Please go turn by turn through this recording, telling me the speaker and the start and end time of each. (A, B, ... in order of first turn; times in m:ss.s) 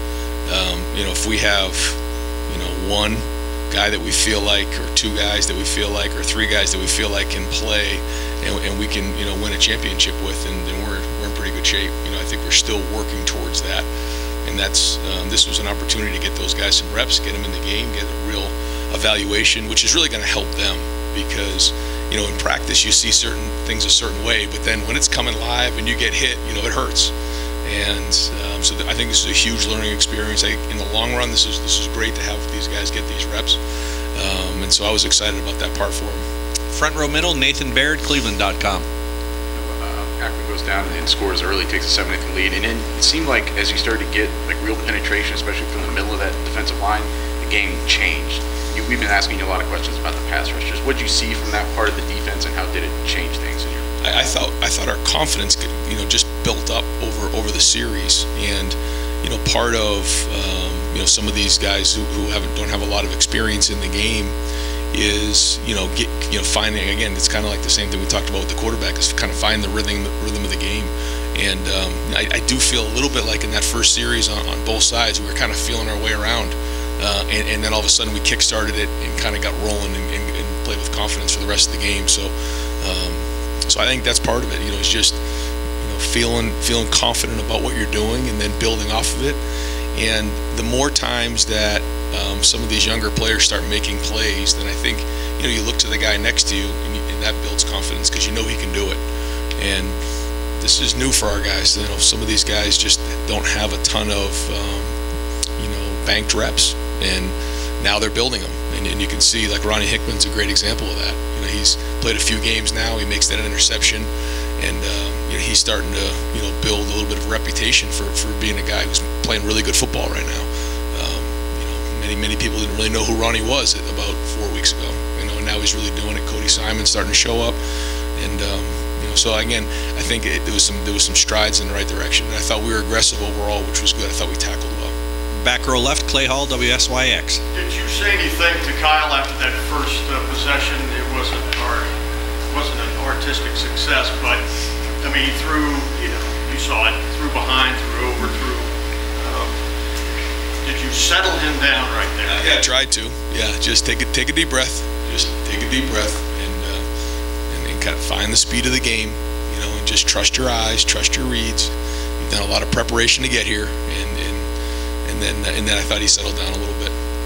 0:00.5-0:02.0 A
0:02.5-0:13.9 A
0:14.4-0:27.1 A
0:27.6-0:33.6 A
0:34.1-0:36.2 A
0:36.7-0:38.8 B
0:39.6-0:53.8 C
0:54.0-1:04.3 A
1:04.9-1:25.2 A
1:25.8-1:29.4 A
1:29.9-1:39.0 A
1:39.6-1:40.0 A
1:40.6-1:44.9 A
1:45.6-2:07.6 A
2:08.2-2:14.9 A
2:15.4-2:17.4 B
2:17.5-2:21.9 D
2:22.5-2:24.4 D
2:25.0-2:29.5 D
2:30.6-2:32.5 D
2:32.2-2:36.8 A
2:37.5-2:44.4 A
2:45.1-2:46.9 A